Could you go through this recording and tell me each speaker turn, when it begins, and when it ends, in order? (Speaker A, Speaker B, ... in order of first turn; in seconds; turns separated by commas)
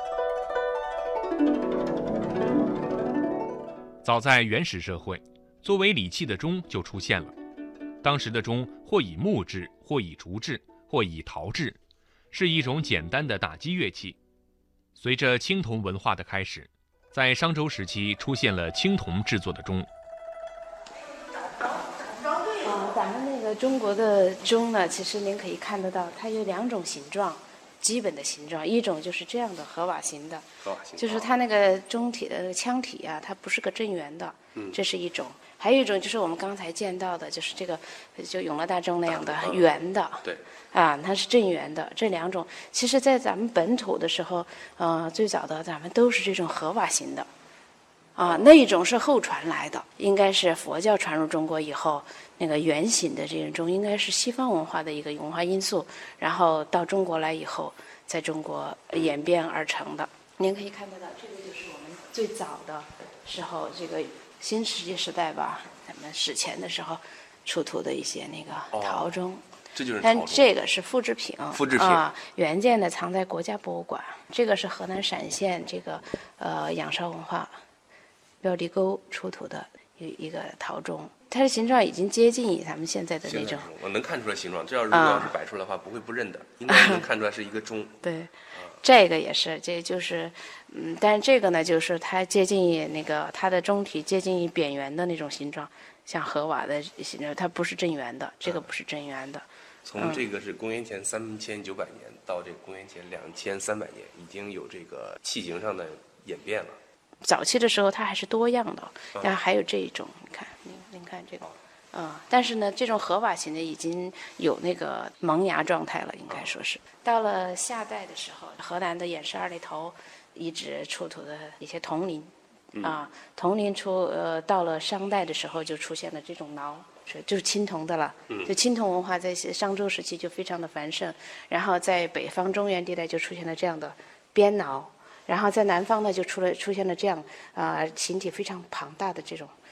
Speaker A: 4.0-7.3, Speaker A: 8.0-11.8, Speaker A: 12.3-14.2, Speaker A: 15.0-19.9, Speaker B: 22.6-47.3, Speaker C: 30.6-31.3, Speaker C: 39.1-39.7, Speaker B: 48.2-69.4, Speaker C: 68.7-69.1, Speaker C: 69.7-70.5, Speaker B: 70.0-77.6, Speaker C: 71.5-72.0, Speaker B: 78.4-83.7, Speaker C: 83.2-88.0, Speaker B: 84.9-85.3, Speaker B: 86.7-87.1, Speaker B: 88.0-99.5, Speaker C: 99.8-106.8, Speaker B: 100.0-100.2, Speaker B: 107.2-139.5